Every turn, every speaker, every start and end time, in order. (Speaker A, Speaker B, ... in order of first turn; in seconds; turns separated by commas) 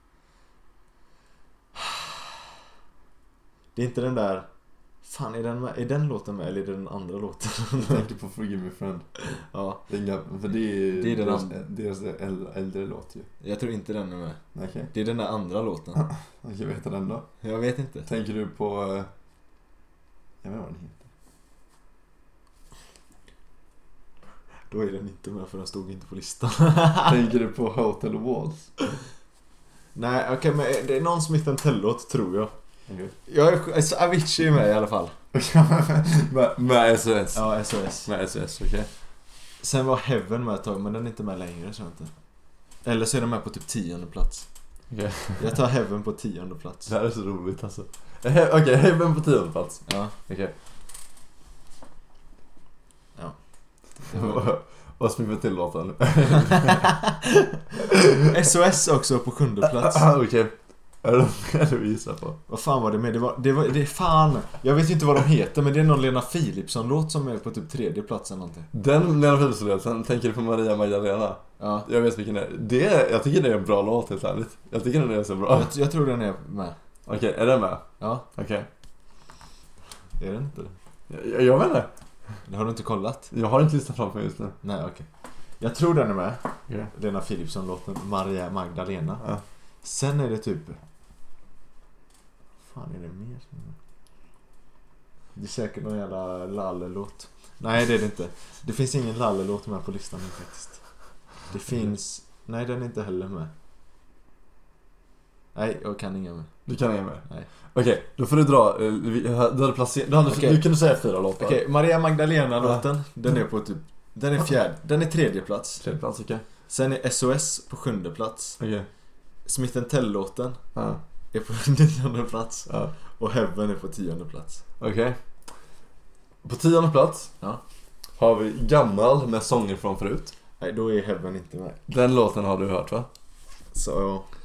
Speaker A: 1.8-2.1, Speaker A: 3.8-4.5, Speaker A: 5.0-8.1, Speaker B: 7.8-9.1, Speaker A: 9.3-9.8, Speaker B: 9.9-13.3, Speaker A: 10.9-11.6, Speaker A: 13.4-14.4, Speaker B: 14.6-14.9, Speaker A: 14.9-16.1, Speaker B: 16.0-17.3, Speaker A: 17.4-18.1, Speaker B: 18.1-19.1, Speaker B: 20.4-21.1, Speaker A: 24.7-27.3, Speaker B: 27.1-28.7, Speaker A: 29.9-32.5, Speaker B: 32.9-33.1, Speaker A: 33.3-35.1, Speaker B: 35.3-37.5, Speaker A: 37.4-38.1, Speaker B: 38.0-38.9, Speaker A: 39.6-42.1, Speaker A: 42.8-44.5, Speaker B: 44.9-45.5, Speaker A: 45.4-46.9, Speaker B: 46.9-50.5, Speaker A: 49.9-50.1, Speaker A: 54.0-54.5, Speaker B: 54.1-56.9, Speaker A: 56.4-60.1, Speaker B: 59.6-62.4, Speaker A: 62.5-68.7, Speaker B: 68.7-75.7, Speaker A: 71.6-71.9, Speaker A: 75.5-76.8, Speaker B: 77.1-78.7, Speaker A: 78.0-78.3, Speaker A: 80.2-80.8, Speaker B: 81.1-81.9, Speaker A: 82.5-83.3, Speaker B: 83.3-84.6, Speaker A: 84.6-85.1, Speaker A: 85.6-89.3, Speaker A: 89.8-90.8, Speaker A: 92.7-93.8, Speaker A: 95.4-100.8, Speaker A: 101.5-103.5, Speaker A: 105.5-106.5, Speaker B: 106.7-111.6, Speaker A: 110.3-110.6, Speaker A: 111.4-115.8, Speaker B: 115.8-116.4, Speaker A: 116.7-118.6, Speaker B: 118.6-118.9, Speaker A: 119.5-120.6, Speaker B: 120.8-121.0, Speaker A: 121.3-124.6, Speaker B: 122.7-122.9, Speaker B: 124.8-125.2, Speaker B: 126.4-127.3, Speaker B: 128.2-130.3, Speaker A: 130.6-131.8, Speaker B: 131.9-133.1, Speaker A: 133.7-134.3